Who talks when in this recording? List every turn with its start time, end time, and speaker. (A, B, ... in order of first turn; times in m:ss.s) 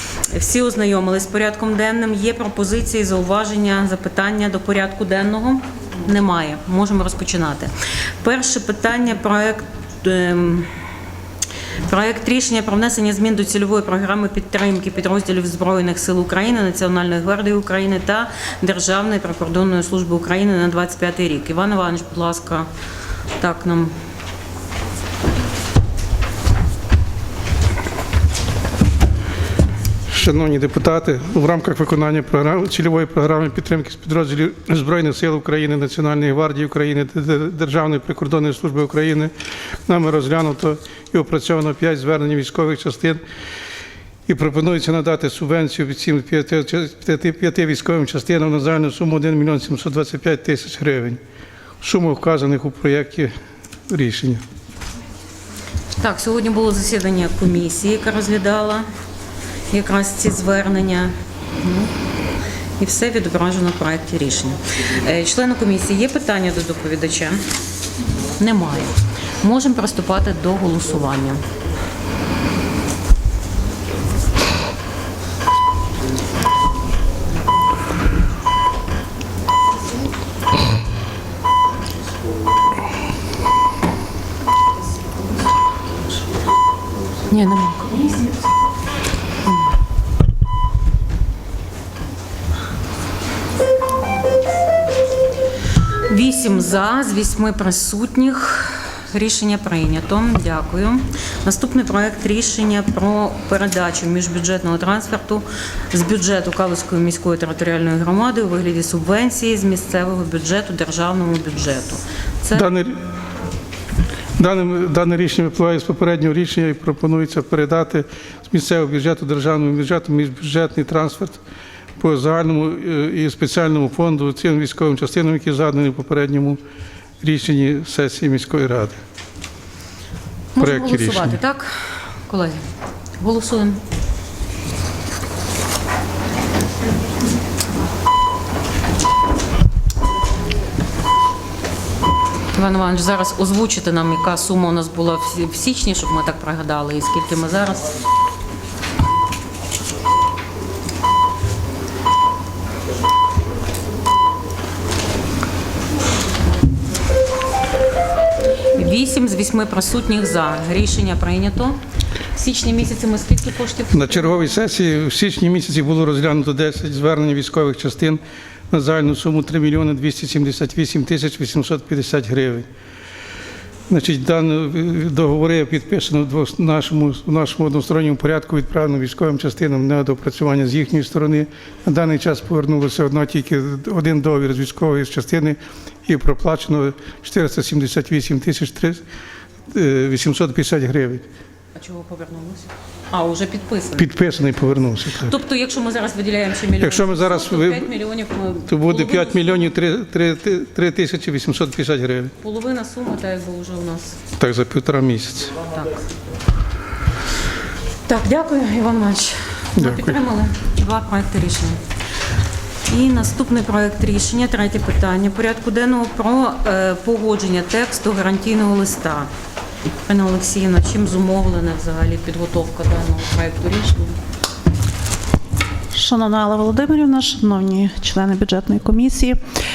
0:00.2-0:10.8 A
0:11.8-0:22.7 A
0:23.4-0:23.9 A
0:30.1-0:39.3 B
0:39.9-0:43.2 B
0:44.3-0:51.2 B
0:51.8-0:53.3 B
0:53.9-0:54.4 B
0:56.0-0:58.9 A
0:59.7-1:01.9 A
1:02.8-1:07.4 A
1:08.4-1:11.4 A
1:27.3-1:28.4 A
1:36.0-1:52.7 A
1:52.5-1:53.0 B
1:54.4-2:01.4 B
2:02.0-2:06.6 B
2:07.2-2:09.0 B
2:10.5-2:12.7 A
2:10.6-2:11.4 B
2:13.2-2:13.8 A
2:22.5-2:27.9 A
2:38.7-2:41.8 A
2:42.3-2:44.3 A
2:43.9-2:48.2 B
2:48.7-2:52.7 B
2:53.9-3:09.0 B
3:09.7-3:11.2 B
3:11.7-3:14.1 A
3:14.0-3:15.3 B
3:15.2-3:19.7 A
3:16.8-3:17.9 B
3:18.7-3:22.3 B
3:22.4-3:24.2 A
3:24.4-3:25.6 B
3:25.7-3:26.0 A
3:28.0-3:31.8 A
3:29.8-3:30.2 B
3:32.9-3:39.3 A
3:40.0-3:44.2 A
3:45.9-3:49.4 C